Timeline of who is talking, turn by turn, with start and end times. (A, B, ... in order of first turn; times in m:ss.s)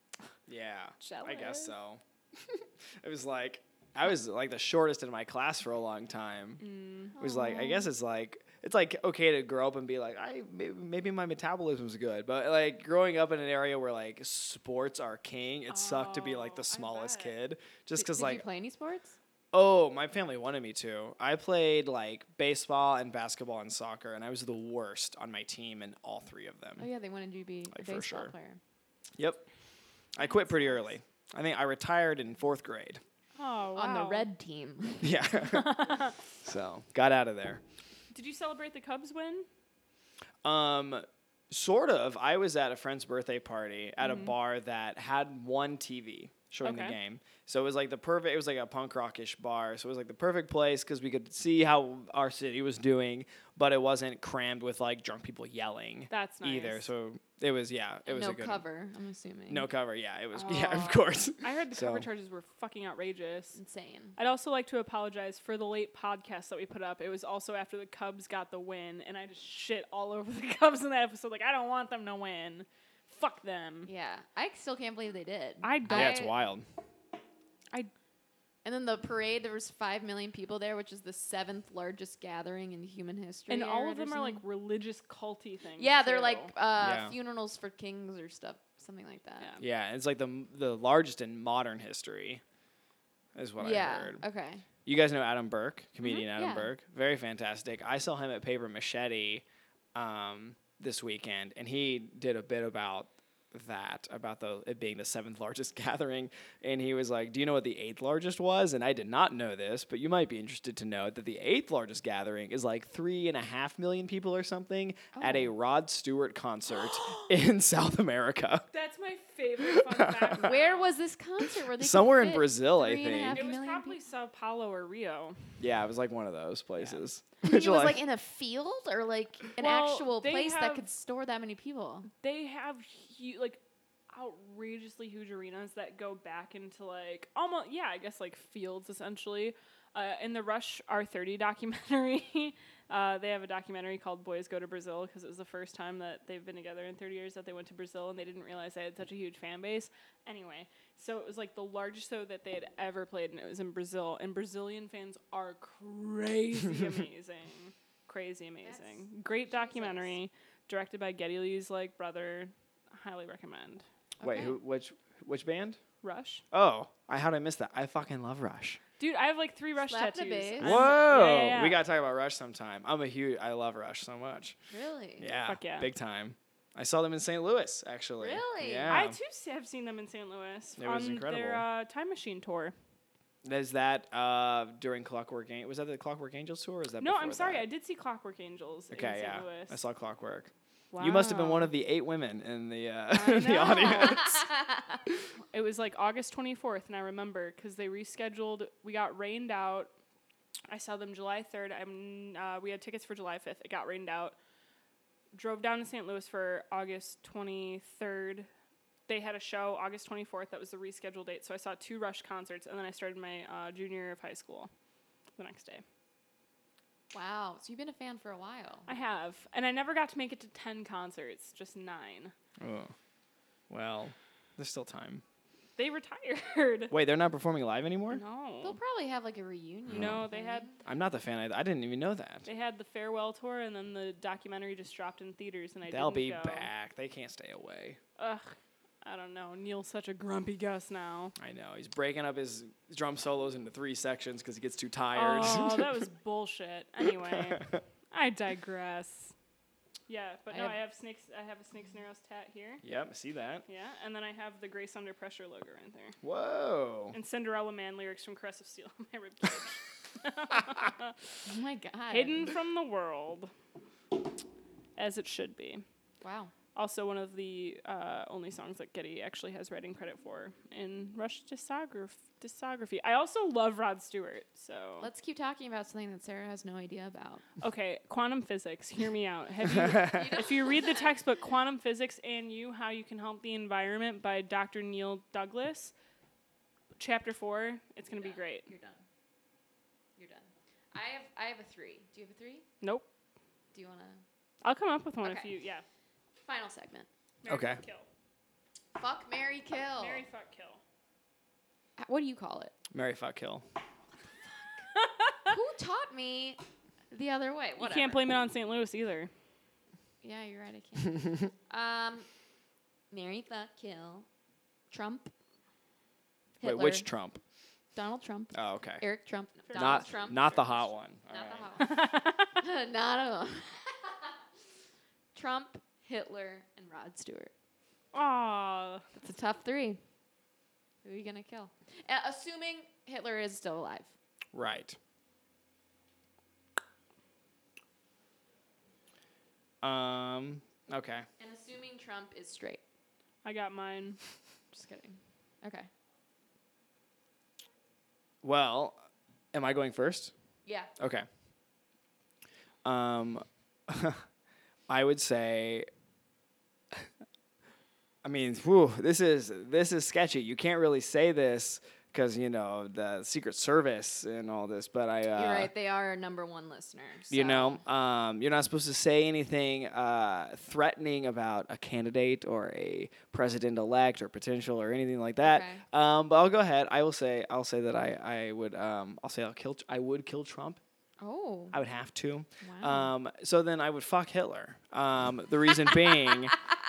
0:00.5-0:06.6 A
0:01.0-0:01.7 B
0:06.6-0:07.2 B
0:07.2-0:07.9 C
0:07.2-0:18.4 A
0:15.7-0:17.4 B
0:18.0-0:19.2 C
0:19.5-0:26.9 A
0:26.8-0:28.6 C
0:27.7-0:28.3 A
0:29.2-0:29.4 A
0:30.1-0:33.0 A
0:30.2-0:30.9 C
0:33.4-0:34.3 B
0:33.8-0:35.1 C
0:35.0-0:35.9 A
0:35.4-0:36.2 B
0:36.4-0:37.6 A
0:38.1-0:39.5 B
0:40.4-0:58.6 A
0:44.0-0:44.3 B
0:46.6-0:47.0 B
0:56.1-0:56.9 B
0:58.1-0:59.7 C
0:59.5-1:02.1 A
1:00.4-1:03.6 B
1:03.6-1:04.2 C
1:04.2-1:13.9 B
1:13.9-1:16.3 C
1:15.6-1:16.3 B
1:15.9-1:16.6 A
1:18.6-1:24.4 C
1:23.5-1:26.5 B
1:25.8-1:29.6 C
1:26.8-1:27.2 A
1:29.6-1:32.4 A
1:33.4-1:34.2 A
1:33.6-1:34.6 C
1:34.8-1:39.4 A
1:36.3-1:36.7 C
1:40.0-1:58.7 A
1:55.1-1:55.5 C
1:58.7-2:01.0 B
1:59.6-2:00.4 A
2:00.4-2:04.0 C
2:01.7-2:03.4 A
2:03.1-2:05.6 B
2:05.6-2:08.0 A
2:07.4-2:12.1 C
2:09.6-2:10.9 B
2:12.2-2:43.8 B
2:38.6-2:40.1 C
2:44.2-2:44.6 C
2:44.2-2:45.8 A
2:46.0-2:46.4 B
2:46.5-2:48.8 A
2:49.0-2:51.8 B
2:49.8-2:50.9 C
2:50.6-2:54.6 A
2:54.7-2:55.3 C
2:55.2-2:59.2 A
2:55.4-2:55.9 B
2:58.2-2:59.0 C
2:58.9-3:02.8 B
3:00.8-3:01.6 A
3:03.4-3:07.6 A
3:07.0-3:09.8 B
3:08.9-3:14.5 A
3:10.9-3:11.7 B
3:13.1-3:14.4 B
3:15.5-3:19.9 B
3:20.7-3:24.4 B
3:25.3-3:28.5 B
3:29.1-3:34.7 B
3:35.4-3:35.8 B
3:37.1-3:38.9 C
3:38.9-3:42.3 B
3:42.6-3:42.9 A
3:43.7-3:45.2 A
3:45.8-3:46.9 B
3:46.9-3:48.2 A
3:48.1-3:48.8 B
3:48.6-3:50.8 C
3:49.9-3:50.7 B
3:49.9-3:50.2 A
3:50.8-3:52.5 A
3:52.5-3:56.7 B
3:55.9-3:58.0 A
3:58.2-4:01.4 B
4:01.4-4:06.0 A
4:05.1-4:09.3 B
4:07.3-4:07.8 A
4:10.1-4:12.8 B
4:10.5-4:10.8 A
4:12.8-4:13.6 A
4:13.7-4:16.2 B
4:16.2-4:17.2 A
4:17.1-4:21.3 B
4:21.5-4:22.5 C
4:22.1-4:23.5 B
4:25.0-4:25.8 B
4:26.2-4:26.5 C
4:26.8-4:35.1 B
4:35.0-4:37.4 C
4:37.6-4:45.9 B
4:39.7-4:40.1 A
4:40.0-4:41.1 C
4:47.0-4:48.7 B
4:48.1-4:49.0 C
4:50.2-4:52.6 C
4:52.8-4:53.1 B
4:53.7-4:54.2 C
4:54.6-4:55.8 B
4:55.2-4:55.5 C
4:56.4-4:57.1 C
4:57.4-4:58.1 B
4:57.5-4:57.8 A
4:59.0-5:00.2 C
5:00.0-5:00.8 B
5:02.0-5:02.7 C
5:02.9-5:03.6 A
5:04.5-5:04.8 C
5:04.9-5:05.5 B
5:05.4-5:06.6 C
5:07.1-5:08.2 C
5:07.8-5:09.3 B
5:10.2-5:12.3 C
5:13.1-5:14.3 C
5:14.9-5:15.3 C
5:16.6-5:17.1 C
5:16.6-5:17.4 A
5:18.0-5:20.6 C
5:18.5-5:19.0 A
5:19.7-5:20.5 B
5:19.8-5:21.7 A
5:21.3-5:24.4 C
5:21.8-5:22.5 B
5:25.4-5:27.5 C
5:28.1-5:29.1 B
5:29.2-5:30.0 C
5:31.0-5:34.1 C
5:34.5-5:35.0 A
5:39.8-5:41.3 A
5:41.4-5:42.8 C
5:43.4-5:44.2 B
5:44.7-5:45.9 C
5:48.4-5:49.0 A
5:49.5-5:50.3 A
5:50.7-5:50.9 C
5:51.0-5:51.3 A
5:52.8-5:54.2 A
5:54.9-5:55.9 A
5:58.2-6:05.7 A
6:05.3-6:07.8 C
6:07.3-6:20.8 A
6:15.4-6:15.8 C
6:21.2-6:21.8 C
6:21.7-6:26.6 A
6:22.6-6:23.1 C